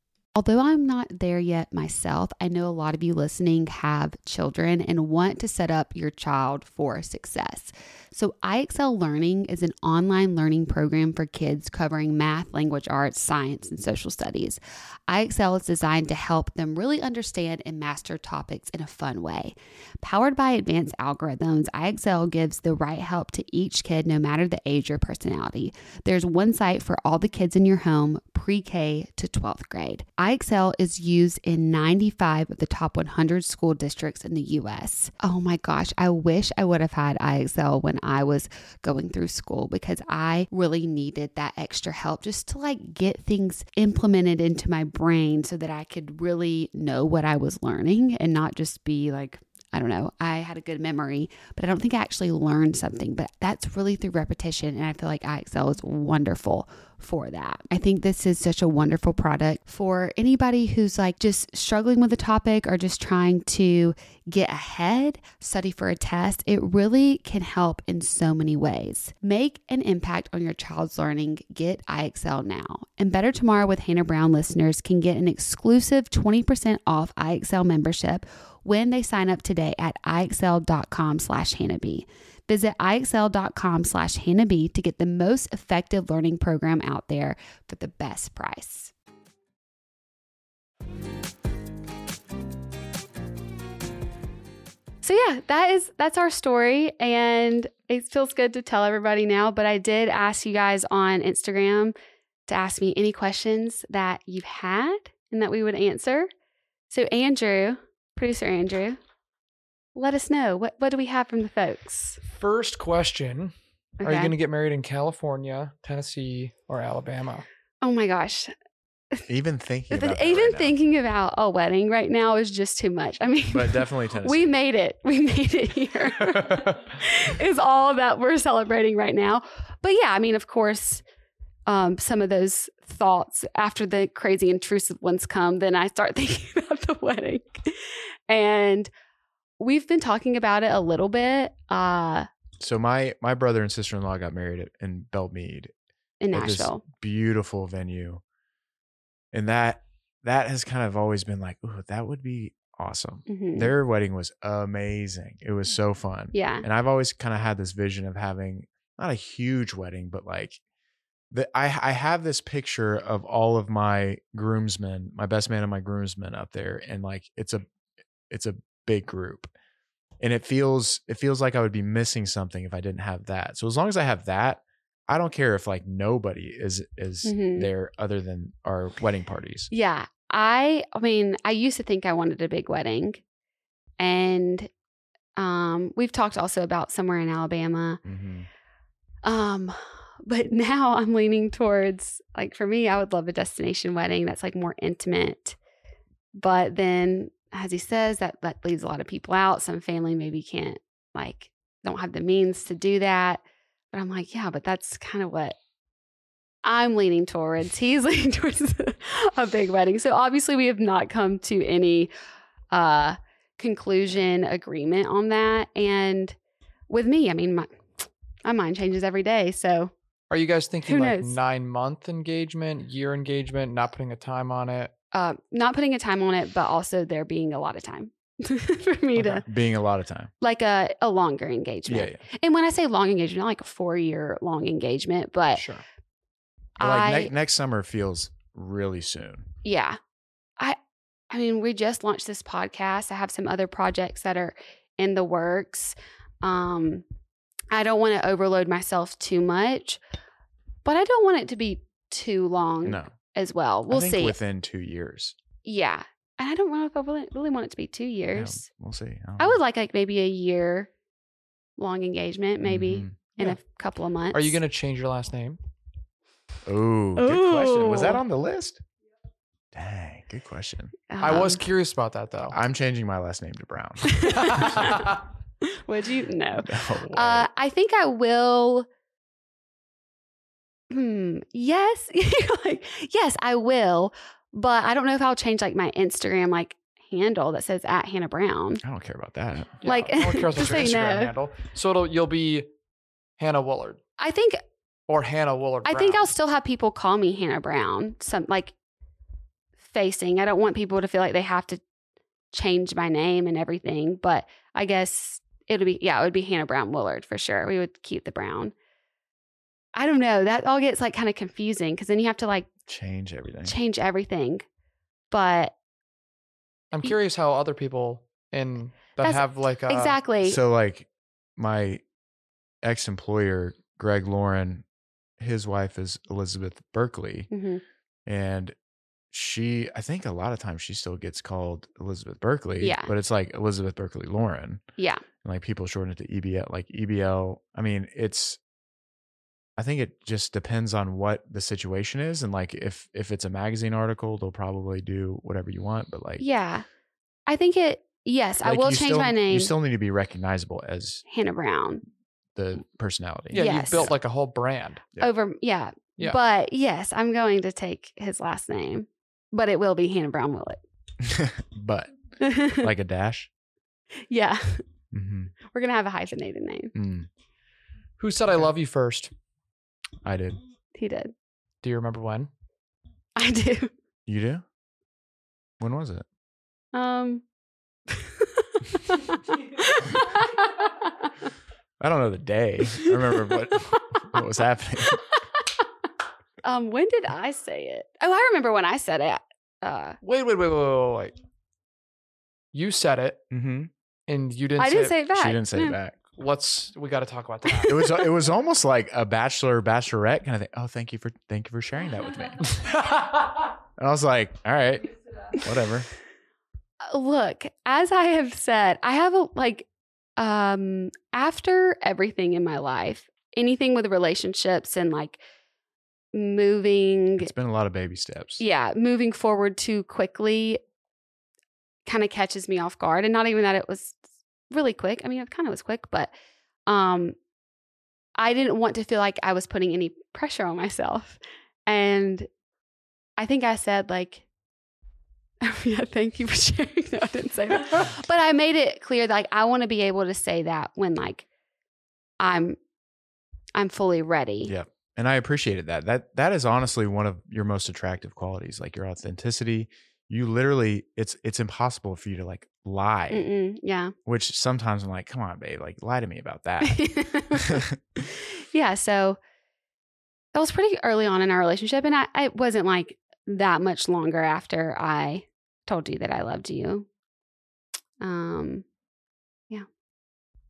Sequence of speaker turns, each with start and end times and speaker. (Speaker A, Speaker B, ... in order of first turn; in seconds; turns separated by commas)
Speaker A: 0.3-88.9, Speaker A: 95.0-101.9, Speaker A: 102.5-106.3, Speaker A: 106.9-109.0, Speaker A: 110.0-112.2, Speaker B: 112.3-113.5, Speaker A: 114.0-114.3, Speaker B: 114.0-117.5, Speaker A: 117.8-118.5, Speaker C: 119.3-120.8, Speaker A: 119.9-131.0, Speaker C: 123.5-124.5, Speaker A: 131.7-138.9, Speaker A: 139.6-142.3, Speaker C: 142.6-145.7, Speaker A: 146.2-146.8, Speaker C: 146.3-148.2, Speaker C: 149.3-160.6, Speaker A: 153.3-153.7, Speaker A: 156.3-156.7, Speaker C: 161.3-167.7, Speaker C: 168.3-169.5, Speaker C: 170.2-179.7, Speaker A: 177.2-177.7, Speaker A: 179.7-183.2, Speaker A: 184.0-184.7, Speaker A: 185.4-188.0, Speaker C: 188.0-188.5, Speaker A: 189.2-195.6, Speaker A: 196.4-205.6, Speaker A: 206.6-212.1, Speaker A: 212.7-216.3, Speaker A: 216.9-219.9, Speaker B: 220.3-224.9, Speaker A: 220.9-221.3, Speaker A: 225.1-229.4, Speaker C: 229.3-230.3, Speaker A: 230.4-235.7, Speaker C: 231.9-232.2, Speaker B: 235.6-235.8, Speaker A: 236.8-237.3, Speaker C: 236.8-239.5, Speaker A: 239.6-240.0, Speaker A: 241.3-247.0, Speaker A: 247.7-250.0, Speaker A: 250.8-254.4, Speaker C: 252.8-253.1, Speaker C: 253.9-255.4, Speaker A: 255.7-258.6, Speaker C: 258.3-259.6, Speaker A: 259.4-260.9, Speaker A: 261.8-264.6, Speaker C: 262.6-263.3, Speaker B: 264.3-265.6, Speaker C: 266.6-268.8, Speaker A: 267.2-268.2, Speaker C: 269.7-271.0, Speaker A: 271.1-271.6, Speaker B: 271.2-272.6, Speaker C: 272.5-274.9, Speaker A: 274.2-275.0, Speaker A: 275.7-278.9, Speaker C: 276.6-277.5, Speaker A: 280.9-288.8, Speaker C: 288.8-289.8, Speaker B: 289.8-292.7, Speaker A: 289.9-291.3, Speaker B: 293.4-294.0, Speaker A: 294.2-294.6, Speaker B: 295.1-296.2, Speaker A: 295.9-298.7, Speaker A: 299.9-301.8, Speaker A: 302.5-308.7, Speaker A: 310.0-312.7, Speaker C: 312.9-313.8, Speaker A: 313.6-314.7, Speaker A: 315.3-315.7, Speaker B: 316.9-320.2, Speaker A: 319.2-320.6, Speaker C: 320.4-322.0, Speaker C: 322.8-324.8, Speaker C: 325.4-327.5, Speaker A: 327.5-327.8, Speaker C: 328.3-328.7, Speaker C: 329.3-334.8, Speaker A: 332.8-333.1, Speaker A: 335.0-335.2, Speaker C: 335.4-338.6, Speaker C: 339.8-346.4, Speaker A: 346.4-346.9, Speaker A: 347.5-349.7, Speaker C: 348.6-351.2, Speaker A: 351.3-352.0, Speaker C: 352.6-354.1, Speaker B: 353.5-355.1, Speaker A: 353.6-354.1, Speaker A: 355.2-360.8, Speaker C: 361.2-363.5, Speaker A: 362.4-362.9, Speaker A: 364.3-364.8, Speaker C: 365.1-365.5, Speaker A: 365.7-366.9, Speaker C: 366.9-367.3, Speaker B: 368.2-369.3, Speaker C: 370.2-370.6, Speaker A: 371.0-371.3, Speaker B: 371.8-372.5, Speaker A: 373.4-373.9, Speaker C: 374.3-374.6, Speaker C: 375.8-376.2, Speaker A: 376.9-377.4, Speaker A: 378.2-381.1, Speaker C: 382.0-385.2, Speaker A: 386.6-390.2, Speaker B: 390.2-391.4, Speaker B: 392.7-393.4, Speaker C: 393.5-393.9, Speaker B: 394.3-395.2, Speaker A: 394.8-396.0, Speaker C: 395.3-396.2, Speaker B: 396.3-398.0, Speaker A: 397.7-398.1, Speaker C: 397.9-402.7, Speaker B: 402.7-403.6, Speaker C: 404.0-406.1, Speaker A: 407.1-409.9, Speaker A: 410.4-415.4, Speaker A: 416.3-417.5, Speaker C: 417.4-418.6, Speaker A: 418.6-420.8, Speaker A: 422.1-424.2, Speaker A: 424.7-426.3, Speaker A: 426.9-427.4, Speaker A: 428.4-432.5, Speaker A: 433.4-434.4, Speaker A: 435.6-441.5, Speaker A: 442.4-442.8, Speaker A: 443.8-444.7, Speaker C: 444.7-453.5, Speaker A: 453.3-454.1, Speaker C: 454.3-458.0, Speaker A: 456.8-457.8, Speaker A: 458.7-459.4, Speaker A: 460.5-467.1, Speaker A: 468.2-468.9